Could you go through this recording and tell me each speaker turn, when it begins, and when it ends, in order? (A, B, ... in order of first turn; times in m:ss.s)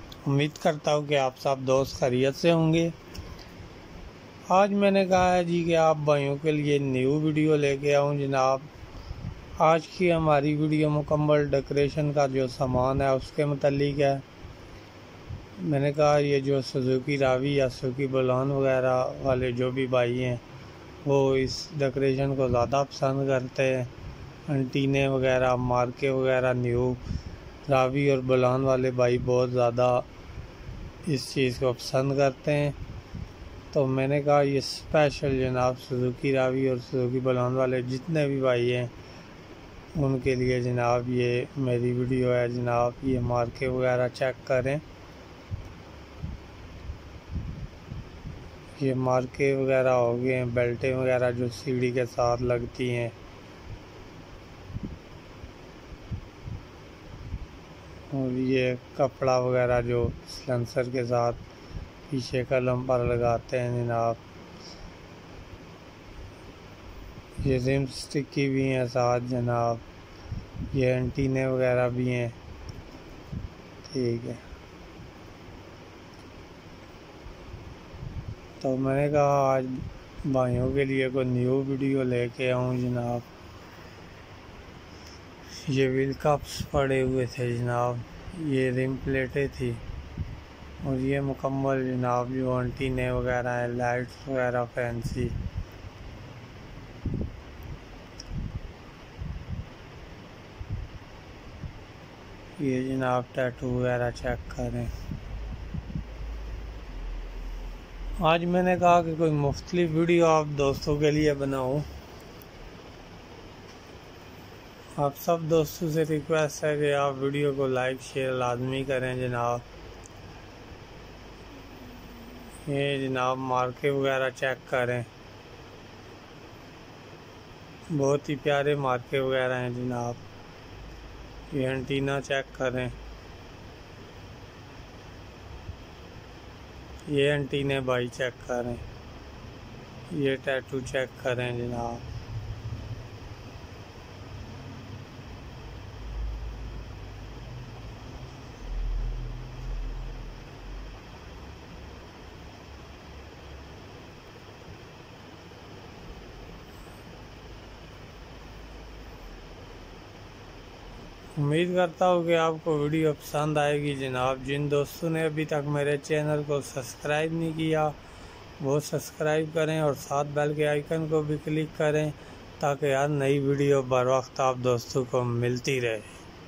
0:00.2-0:02.9 A
0:04.5-0:08.7 A
0:09.6-0:14.2 A
0:15.6-0:20.4 A
0:21.0-0:23.9 A
0:24.5-0:27.0 A
0:27.6-0:30.0 A
0:31.0-0:32.8 A
0:33.7-0:38.9 A
0:39.9-0:44.8 A
0:48.8-0:53.1 A
0:58.1-1:01.4 A
1:02.1-1:04.2 A
1:07.4-1:09.8 A
1:10.7-1:12.4 A
1:13.8-1:14.4 A
1:18.6-1:23.3 A
1:25.6-1:29.8 A
1:30.8-1:35.4 A
1:42.6-1:44.9 A
1:48.2-1:51.9 A
1:55.0-1:59.6 A
2:02.6-2:05.1 A
2:07.9-2:10.2 A
2:11.5-2:13.0 A
2:17.1-2:18.8 A
2:20.1-2:22.0 A
2:41.3-2:48.0 A
2:48.6-2:56.1 A